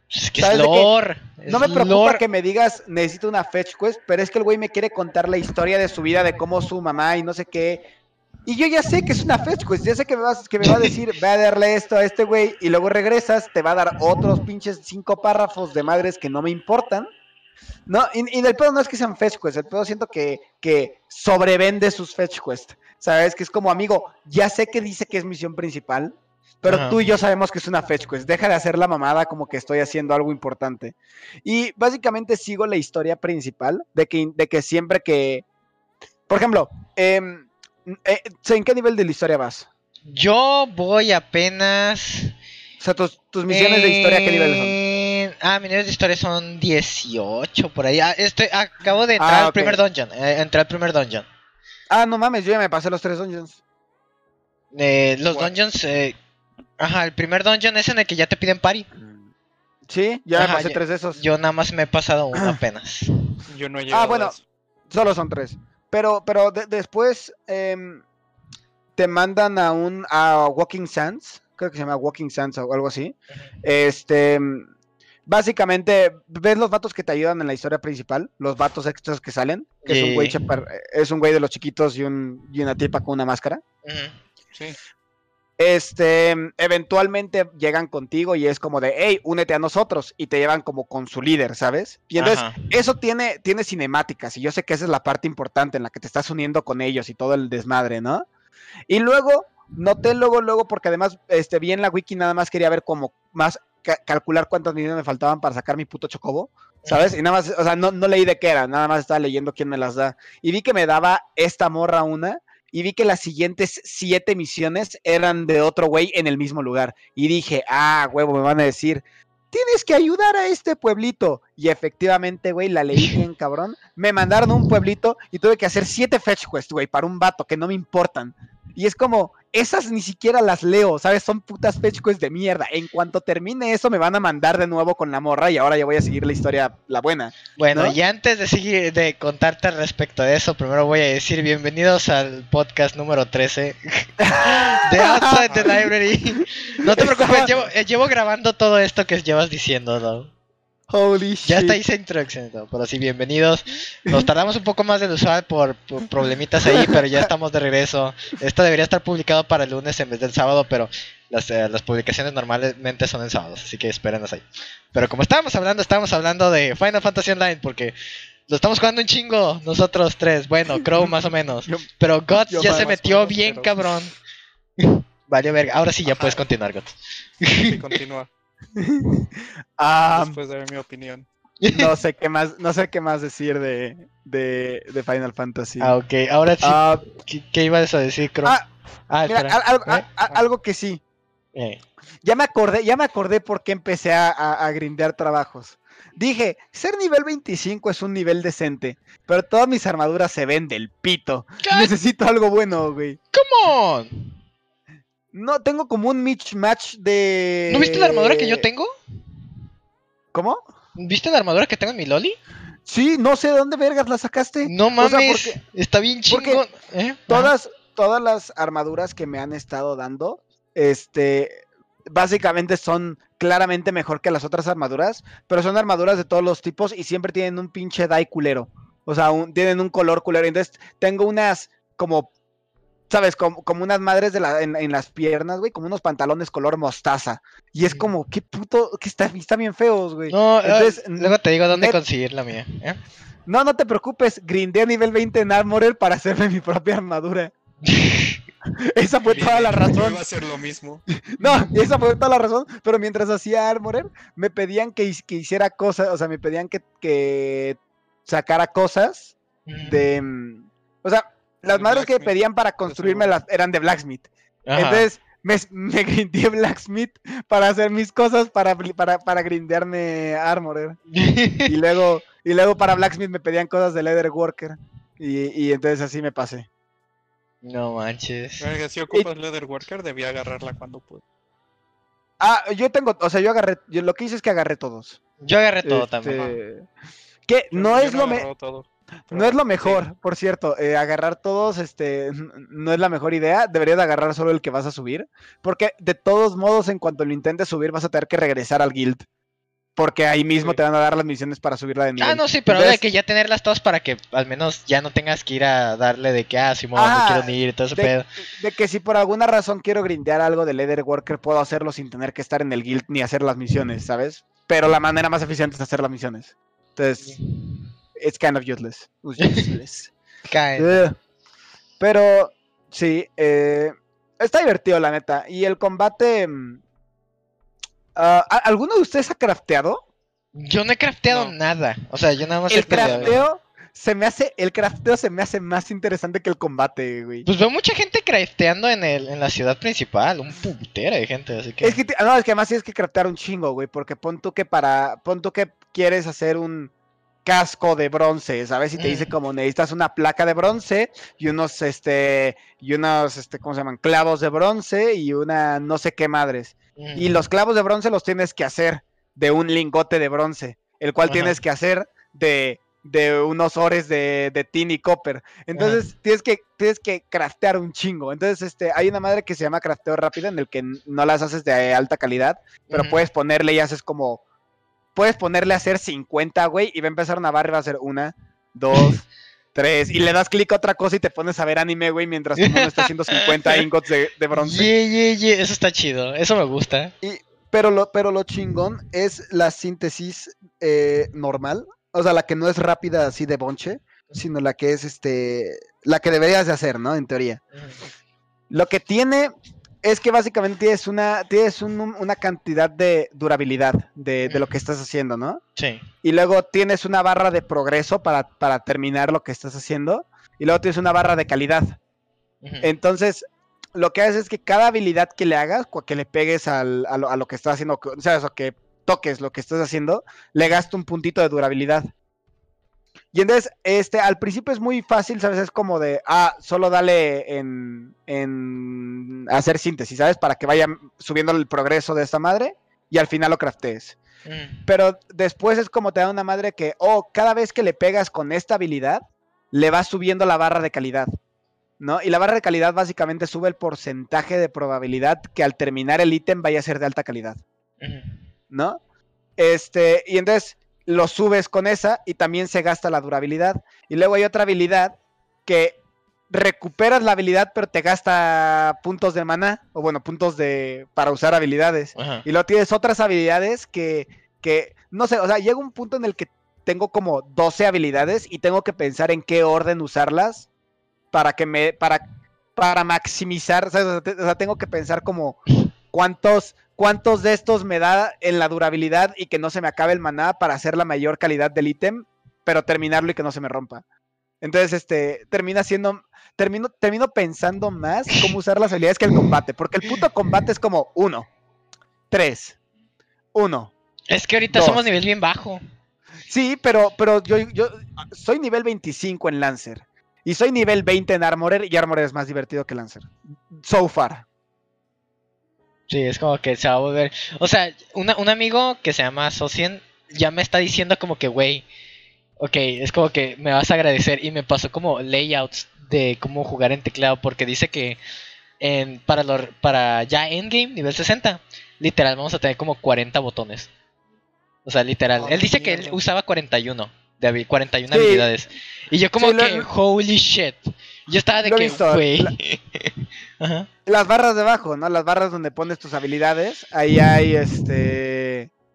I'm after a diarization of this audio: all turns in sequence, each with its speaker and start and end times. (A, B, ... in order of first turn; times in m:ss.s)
0:00.1-0:02.2 A
0:00.4-0:00.9 B
0:01.5-0:07.8 B
0:08.5-0:17.1 B
0:10.6-0:10.9 A
0:17.9-0:35.4 B
0:26.7-0:27.0 A
0:36.3-0:39.7 B
0:40.1-0:42.3 A
0:42.8-0:44.8 B
0:43.5-0:51.2 A
0:49.2-0:49.8 B
0:51.9-0:53.6 B
0:54.7-0:56.2 A
0:56.8-0:58.9 A
0:59.9-1:01.2 B
1:00.3-1:03.1 A
1:03.5-1:04.4 C
1:03.9-1:04.4 B
1:04.9-1:08.0 B
1:09.0-1:14.7 B
1:15.2-1:23.6 B
1:19.8-1:20.4 A
1:23.8-1:24.2 A
1:25.6-1:38.2 B
1:32.2-1:32.7 A
1:38.9-2:18.0 B
1:46.8-1:47.2 A
2:17.6-2:30.3 A
2:24.2-2:25.8 B
2:25.5-2:25.9 C
2:26.8-2:27.5 B
2:30.9-2:31.8 B
2:31.4-2:47.9 A
2:36.7-2:37.0 B
2:48.5-2:54.1 A
2:51.0-2:51.8 B
2:52.5-2:52.9 B
2:52.6-2:54.0 C
2:54.8-2:58.0 A
2:57.6-2:58.3 C
2:58.8-2:59.2 B
2:59.8-3:00.4 B
3:00.1-3:01.3 C
3:01.6-3:01.9 A
3:01.7-3:06.0 B
3:05.8-3:08.6 A
3:06.6-3:07.0 B
3:09.1-3:10.1 A
3:09.2-3:11.0 B
3:11.5-3:11.8 A
3:12.2-3:23.2 B
3:21.6-3:21.9 A
3:23.3-3:24.4 A
3:25.3-3:28.7 B
3:27.7-3:28.9 A
3:30.3-3:30.6 B
3:31.0-3:32.4 A
3:32.8-3:35.6 B
3:34.6-3:37.5 A
3:36.3-3:36.6 B
3:37.3-3:52.3 B
3:53.1-4:02.0 B
4:00.3-4:03.0 A
4:03.5-4:07.5 B
4:07.8-4:08.4 A
4:08.8-4:10.2 B
4:09.3-4:11.0 C
4:11.3-4:31.0 B
4:11.4-4:11.7 A
4:19.6-4:20.0 A
4:21.7-4:22.3 C
4:22.9-4:23.3 C
4:24.7-4:25.1 A
4:31.1-4:31.7 A
4:31.7-4:36.7 B
4:37.6-4:38.6 A
4:38.6-4:41.2 C
4:42.4-4:45.2 B
4:45.4-4:46.5 A
4:45.8-4:46.9 B
4:47.5-4:48.5 B
4:47.7-4:50.0 C
4:49.3-4:59.2 B
5:00.0-5:03.0 B
5:02.2-5:08.2 A
5:07.0-5:17.4 B
5:17.2-5:17.8 A
5:18.2-5:20.1 B
5:19.4-5:19.7 A
5:20.5-5:21.0 A
5:20.8-5:21.1 B
5:22.0-5:26.8 B
5:28.1-5:30.0 B
5:30.5-5:33.4 A
5:31.3-5:31.6 C
5:32.7-5:37.5 B
5:32.9-5:33.4 C
5:37.4-5:42.0 A
5:41.8-5:46.9 B
5:47.4-6:14.4 B
5:49.0-5:49.3 A
5:57.0-5:57.4 A
6:01.2-6:01.6 A
6:05.8-6:06.0 A
6:12.9-6:13.2 A
6:15.1-6:24.9 B
6:22.6-6:23.8 A
6:24.5-6:27.1 A
6:27.2-6:37.6 B
6:37.8-6:38.0 A
6:38.7-6:39.5 B
6:40.0-6:45.6 B
6:44.4-6:44.8 A
6:45.8-6:46.0 A
6:46.2-6:52.0 B
6:52.6-6:52.9 A
6:52.8-7:02.1 B
7:03.3-7:14.2 B
7:14.4-7:14.9 A
7:14.9-7:21.3 B
7:22.0-7:27.6 B
7:28.0-7:28.4 A
7:28.7-7:29.0 B
7:29.6-7:36.0 B
7:36.5-7:50.7 B
7:42.2-7:42.4 A
7:51.3-7:52.2 B
7:52.8-7:55.6 B
7:56.1-8:04.0 B
8:04.6-8:11.5 B
8:12.3-8:12.8 B
8:13.5-8:13.9 B
8:14.3-8:15.8 A
8:14.7-8:15.0 B
8:16.5-8:24.4 B
8:26.1-8:31.8 A
8:32.6-8:38.2 A
8:38.8-8:43.9 A
8:44.9-8:53.9 A
8:45.4-8:46.2 C
8:48.1-8:48.5 B
8:49.4-8:49.9 B
8:51.6-8:52.5 B
8:54.0-8:58.7 B